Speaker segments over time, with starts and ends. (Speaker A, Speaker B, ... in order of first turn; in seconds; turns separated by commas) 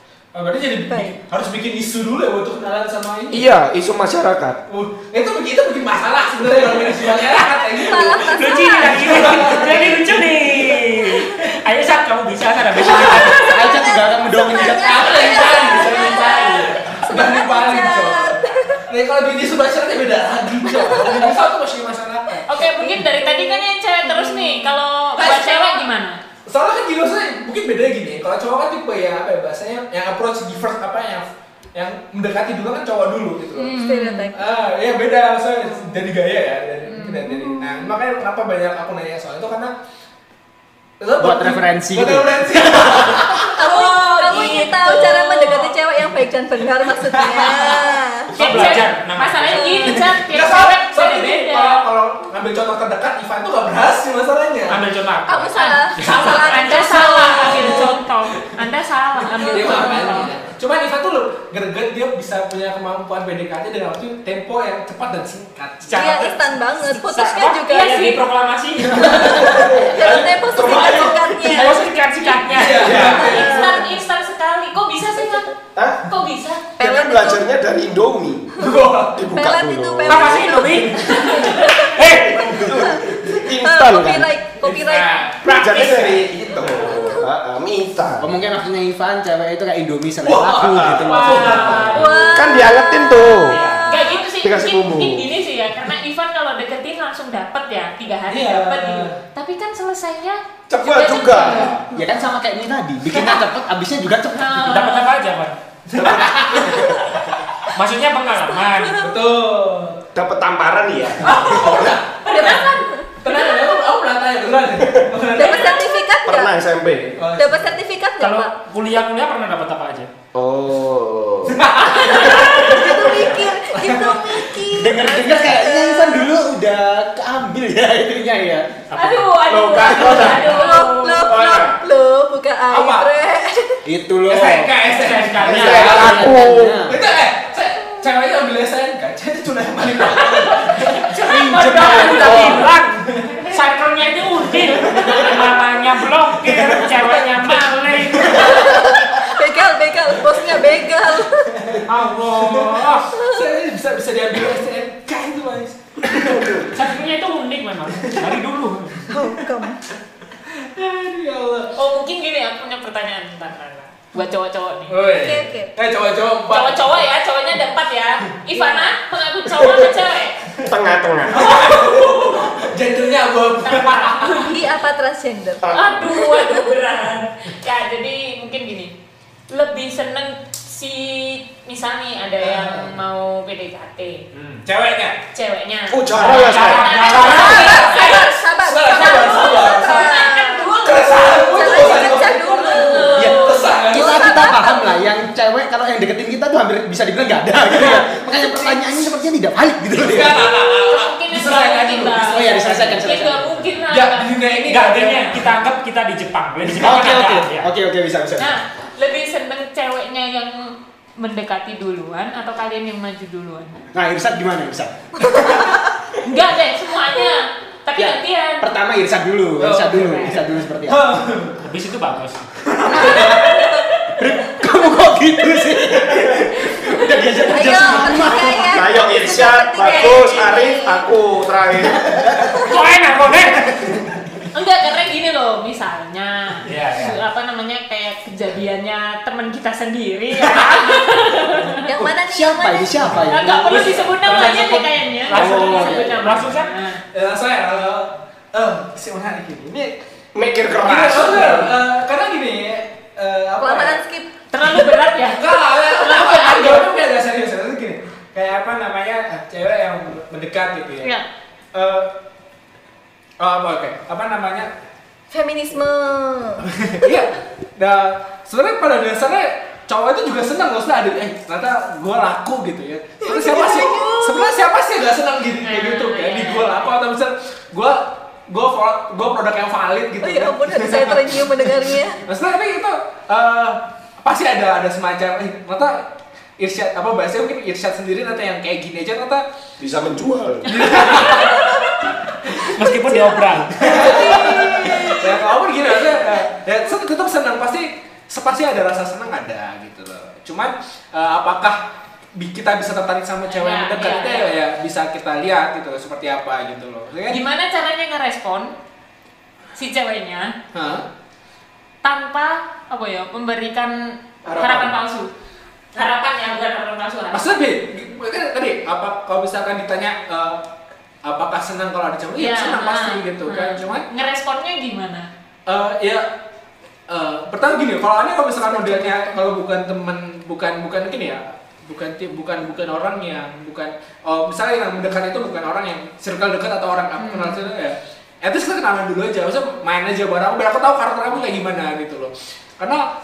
Speaker A: 0.3-3.5, Speaker B: 0.9-1.1, Speaker C: 3.3-4.6, Speaker A: 4.7-10.8, Speaker B: 7.8-9.8, Speaker D: 8.0-13.7, Speaker E: 12.9-15.5, Speaker B: 13.1-18.9, Speaker A: 14.5-22.5, Speaker F: 15.7-16.7, Speaker B: 20.7-21.4, Speaker B: 22.5-24.8, Speaker F: 22.5-26.2, Speaker A: 25.2-25.9, Speaker A: 26.5-33.8, Speaker F: 33.6-34.3, Speaker B: 33.8-34.5, Speaker A: 34.4-39.8, Speaker F: 36.9-37.3, Speaker B: 37.3-37.9, Speaker A: 41.0-43.5, Speaker E: 41.2-42.5, Speaker B: 43.5-48.8, Speaker F: 43.6-45.7, Speaker A: 47.0-47.9, Speaker D: 48.3-50.0, Speaker F: 48.4-51.8, Speaker B: 49.6-50.0, Speaker A: 50.3-54.8, Speaker D: 54.7-56.2, Speaker B: 55.3-58.0, Speaker F: 55.5-60.3, Speaker A: 56.0-56.6, Speaker A: 57.3-57.9, Speaker A: 59.3-66.2, Speaker B: 59.4-60.1, Speaker D: 65.9-69.7, Speaker B: 65.9-68.1, Speaker F: 67.7-68.2, Speaker B: 69.0-71.9, Speaker C: 69.5-71.7, Speaker D: 71.4-73.4, Speaker F: 72.4-75.5, Speaker A: 72.5-73.8, Speaker B: 72.9-73.9, Speaker C: 75.8-76.1, Speaker F: 76.1-76.6, Speaker B: 76.8-77.4, Speaker C: 76.8-80.6, Speaker A: 78.6-79.2, Speaker B: 78.7-82.0, Speaker D: 80.1-82.6, Speaker A: 80.6-81.7, Speaker C: 82.3-84.3, Speaker B: 82.8-85.3, Speaker A: 84.6-87.0, Speaker C: 85.4-88.3, Speaker D: 86.5-86.9, Speaker B: 86.9-87.2, Speaker E: 88.2-91.9, Speaker A: 90.2-92.0, Speaker C: 90.8-91.0, Speaker F: 91.1-92.3, Speaker D: 91.9-92.2, Speaker B: 91.9-94.3, Speaker C: 92.3-93.6, Speaker D: 93.5-94.0, Speaker F: 93.9-101.8, Speaker C: 94.4-95.3, Speaker A: 98.3-99.2, Speaker C: 100.7-101.8, Speaker A: 101.4-101.8, Speaker B: 101.9-102.2, Speaker E: 101.9-104.6, Speaker F: 104.3-105.2, Speaker D: 104.6-105.5, Speaker A: 105.9-107.0, Speaker C: 105.9-107.4, Speaker D: 107.8-109.0, Speaker B: 108.5-108.9, Speaker A: 109.0-110.0, Speaker C: 110.2-111.9, Speaker A: 111.2-115.9, Speaker F: 111.2-112.8, Speaker B: 111.5-113.4, Speaker B: 115.4-116.5, Speaker C: 116.2-117.2, Speaker A: 117.2-117.7, Speaker B: 117.4-118.5, Speaker D: 118.2-120.1, Speaker C: 120.3-121.7, Speaker A: 121.5-124.5, Speaker B: 121.8-126.3, Speaker F: 122.1-122.4, Speaker C: 122.4-123.0, Speaker E: 124.7-128.8, Speaker D: 128.9-129.4, Speaker F: 129.0-131.4, Speaker C: 129.5-130.6, Speaker B: 130.1-133.8, Speaker C: 131.3-131.8, Speaker A: 132.7-133.1, Speaker E: 133.9-134.7, Speaker A: 134.3-136.3, Speaker D: 134.4-136.4, Speaker E: 135.4-137.0, Speaker C: 135.4-136.9, Speaker A: 136.8-141.0, Speaker F: 140.0-142.7, Speaker C: 141.4-142.7, Speaker D: 141.4-148.8, Speaker A: 143.1-143.5, Speaker A: 144.6-145.4, Speaker A: 146.5-147.3, Speaker A: 148.1-149.0, Speaker B: 148.3-151.8, Speaker A: 150.3-156.8, Speaker D: 151.9-153.1, Speaker B: 153.1-153.5, Speaker D: 156.7-159.1, Speaker A: 158.0-158.4, Speaker B: 159.1-159.8, Speaker A: 160.5-161.7, Speaker F: 161.8-165.0, Speaker A: 164.9-167.0, Speaker B: 165.1-165.7, Speaker F: 166.5-170.4, Speaker B: 168.5-168.9, Speaker C: 170.7-172.2, Speaker A: 171.3-174.5, Speaker F: 171.4-171.7, Speaker F: 173.6-174.5, Speaker B: 174.4-175.6, Speaker C: 175.6-176.3, Speaker F: 175.7-178.9, Speaker F: 179.5-184.3, Speaker A: 182.4-182.9, Speaker D: 184.3-184.6, Speaker A: 184.7-185.2, Speaker F: 185.3-193.7, Speaker C: 185.9-187.0, Speaker D: 186.2-188.0, Speaker B: 187.0-193.3, Speaker A: 187.5-188.0, Speaker A: 188.7-190.2, Speaker A: 190.8-194.4, Speaker E: 193.1-200.5, Speaker B: 193.8-195.1, Speaker A: 200.0-203.0, Speaker F: 200.9-204.3, Speaker E: 202.2-203.5, Speaker A: 203.9-205.5, Speaker D: 204.7-207.7, Speaker E: 206.7-208.5, Speaker F: 208.4-213.8, Speaker E: 213.9-215.7, Speaker B: 215.3-215.8, Speaker F: 216.2-218.7, Speaker E: 218.0-221.2, Speaker A: 219.6-221.7, Speaker D: 221.7-222.5, Speaker E: 222.8-223.5, Speaker B: 222.9-223.9, Speaker A: 223.1-223.3, Speaker F: 223.2-223.6, Speaker E: 224.2-228.8, Speaker B: 227.5-231.1, Speaker C: 228.7-232.3, Speaker F: 229.8-230.8, Speaker B: 232.5-232.8, Speaker D: 232.6-234.1, Speaker F: 234.5-241.8, Speaker D: 236.7-237.2, Speaker B: 241.8-243.1, Speaker E: 241.9-243.9, Speaker F: 243.3-247.0, Speaker A: 243.7-244.6, Speaker D: 244.1-246.7, Speaker E: 245.3-246.3, Speaker C: 245.4-245.7, Speaker A: 247.1-250.0, Speaker C: 250.3-251.8, Speaker A: 250.8-254.0, Speaker B: 253.6-254.3, Speaker F: 254.5-257.0, Speaker A: 255.2-261.1, Speaker A: 261.7-262.1, Speaker A: 263.4-264.7, Speaker B: 265.3-267.2, Speaker A: 266.7-286.1, Speaker B: 273.2-274.7, Speaker F: 275.6-276.9, Speaker B: 280.2-282.2, Speaker A: 286.6-289.4, Speaker C: 289.8-291.0, Speaker A: 290.7-291.8, Speaker F: 290.8-291.6, Speaker B: 291.2-292.1, Speaker D: 292.6-294.4, Speaker B: 292.8-295.5, Speaker A: 293.8-301.8, Speaker A: 302.4-307.4, Speaker F: 303.5-304.5, Speaker F: 307.3-308.8, Speaker F: 309.8-310.6, Speaker A: 310.7-311.1, Speaker F: 312.0-315.3, Speaker C: 314.4-314.9, Speaker F: 315.9-317.6, Speaker A: 317.3-320.7, Speaker A: 321.2-324.1, Speaker F: 322.4-325.3, Speaker A: 325.7-326.3, Speaker A: 327.1-343.1, Speaker F: 337.2-337.7